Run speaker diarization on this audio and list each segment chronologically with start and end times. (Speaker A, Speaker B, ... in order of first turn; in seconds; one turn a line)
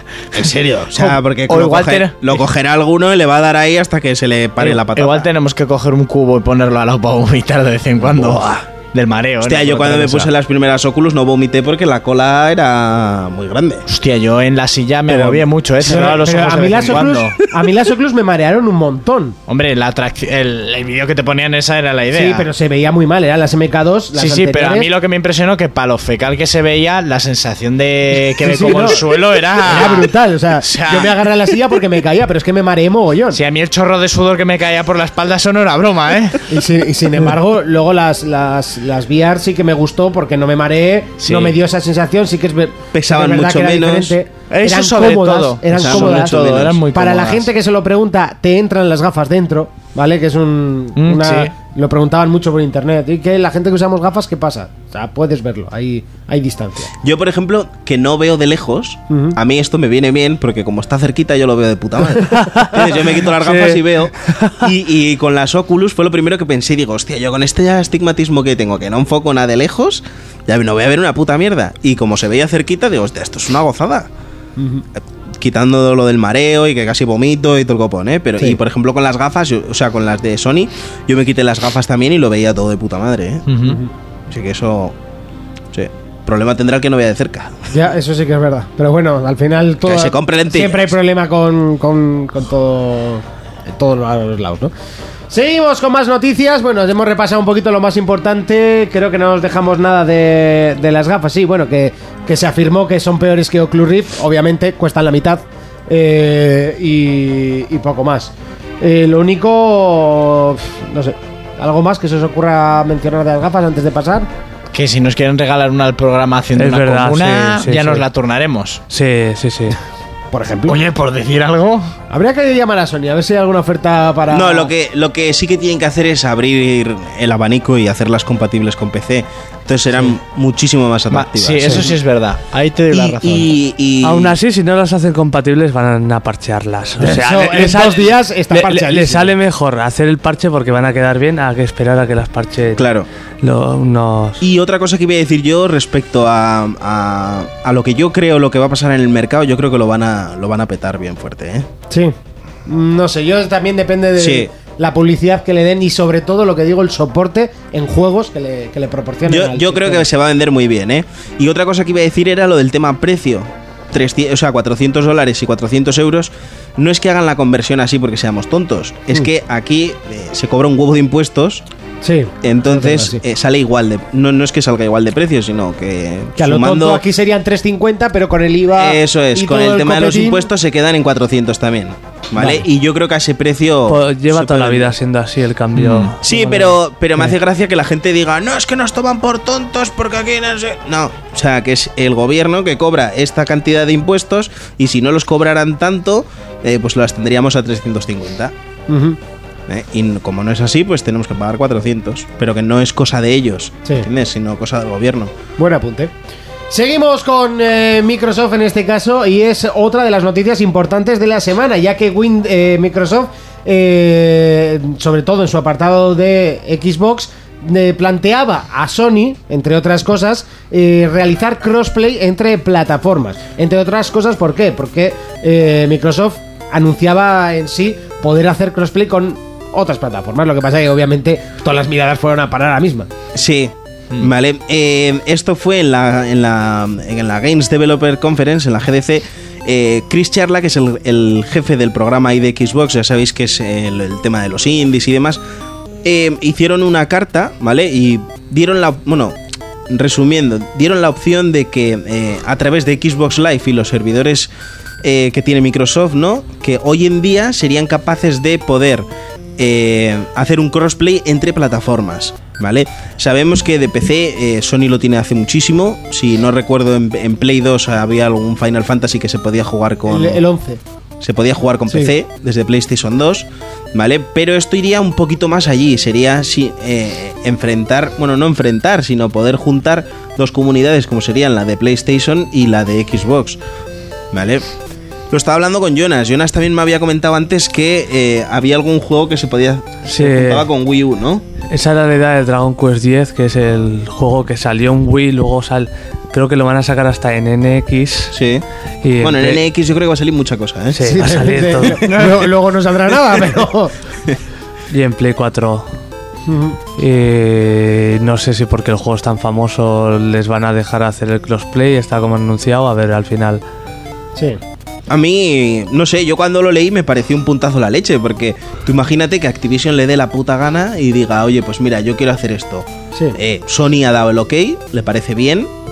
Speaker A: 0.3-5.3
Speaker B: 1.0-2.4
Speaker B: 4.6-10.3
Speaker A: 8.0-8.6
Speaker A: 9.4-13.9
Speaker B: 13.9-17.4
Speaker A: 15.1-15.5
Speaker C: 15.8-19.4
Speaker B: 19.5-22.5
Speaker C: 22.1-24.9
Speaker B: 24.1-31.5
Speaker C: 28.4-33.4
Speaker B: 33.3-36.6
Speaker C: 36.5-56.9
Speaker B: 41.2-41.6
Speaker A: 42.9-44.2
Speaker B: 44.5-47.5
Speaker A: 45.7-46.9
Speaker B: 51.0-51.5
Speaker A: 57.0-74.1
Speaker C: 59.1-59.4
Speaker D: 62.3-64.6
Speaker C: 74.6-74.8
Speaker A: 75.0-83.5
Speaker B: 83.5-83.8
Speaker C: 83.6-83.9
Speaker A: 84.3-85.0
Speaker A: 85.7-87.7
Speaker C: 87.7-94.7
Speaker A: 89.8-91.0
Speaker C: 95.3-114.3
Speaker B: 114.7-118.8
Speaker D: 116.5-118.0
Speaker D: 118.9-119.8
Speaker C: 120.3-120.8
Speaker B: 120.7-121.9
Speaker C: 122.1-124.7
Speaker A: 124.3-131.9
Speaker B: 131.1-133.5
Speaker A: 132.9-134.4
Speaker D: 134.0-142.9
Speaker C: 137.0-139.3
Speaker A: 142.8-143.1
Speaker D: 143.4-144.4
Speaker A: 144.4-151.7
Speaker C: 151.9-152.2
Speaker C: 152.7-160.1
Speaker A: 154.2-154.5
Speaker A: 159.3-171.7
Speaker C: 172.0-173.2
Speaker A: 172.4-177.1
Speaker C: 176.4-180.5
Speaker A: 178.7-185.0
Speaker D: 183.9-186.8
Speaker B: 185.8-186.2
Speaker A: 186.2-198.5
Speaker C: 198.9-199.2
Speaker A: 199.7-205.3
Speaker C: 205.6-206.1
Speaker C: 206.7-233.1
Speaker A: 233.3-245.4
Speaker A: 246.0-249.4
Speaker A: 249.9-254.5
Speaker A: 255.0-259.1
Speaker A: 259.6-270.4
Speaker C: 270.1-270.8
Speaker A: 271.2-283.6
Speaker A: 284.3-284.7
Speaker A: 285.3-291.4
Speaker D: 290.1-290.7
Speaker D: 291.7-298.4
Speaker A: 298.3-298.6
Speaker D: 299.0-299.6
Speaker A: 299.2-301.3
Speaker D: 300.9-302.2
Speaker C: 301.1-303.9
Speaker D: 304.9-305.9
Speaker C: 306.5-306.8
Speaker D: 307.0-313.6
Speaker A: 315.1-325.7